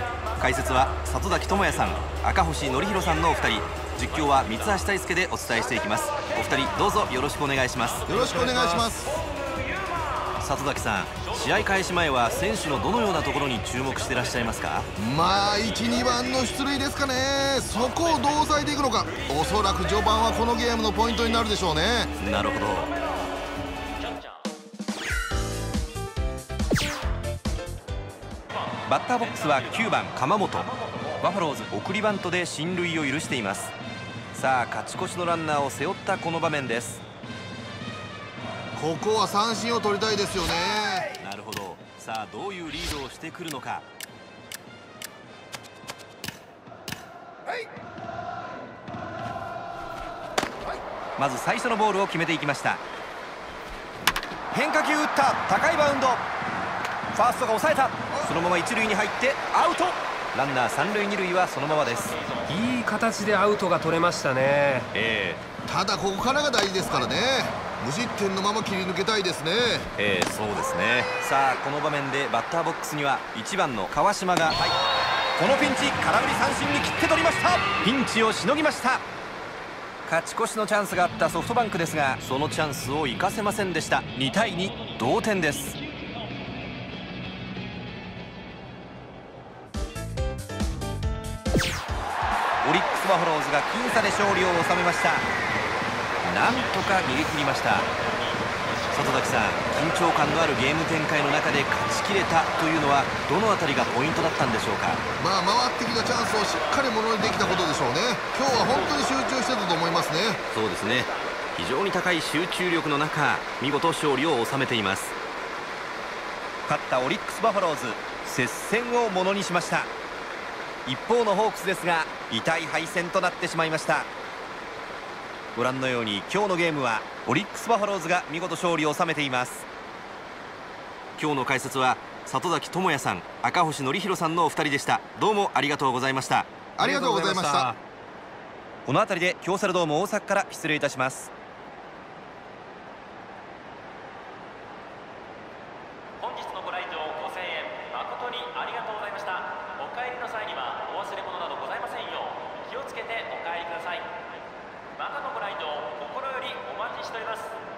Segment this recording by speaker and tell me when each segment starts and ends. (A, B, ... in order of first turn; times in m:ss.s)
0:00.4-0:08.0 A
0:08.1-0:09.1 B
0:10.4-0:14.9 A
0:15.0-0:22.1 B
0:22.2-0:22.9 A
0:28.8-0:33.7 A
0:34.3-0:37.0 A
0:38.8-0:41.1 B
0:41.2-0:43.8 A
0:51.2-0:52.8 A
0:54.5-0:56.2 A
0:57.1-1:02.2 A
1:02.5-1:04.9 C
1:04.9-1:05.4 A
1:05.6-1:09.9 B
1:10.0-1:14.8 A
1:15.4-1:19.0 A
1:20.0-1:25.8 A
1:32.6-1:35.3 A
1:36.2-1:37.9 A
1:38.9-1:45.0 A
1:45.2-1:50.4 B
1:50.5-1:55.1 A
1:56.6-1:59.9 A
2:00.8-2:04.1 A
2:05.5-2:09.7 A
2:11.2-2:17.8 A
2:16.8-2:17.7 B
2:18.8-2:21.3 A
2:26.2-2:34.0 D
2:35.1-2:37.4 D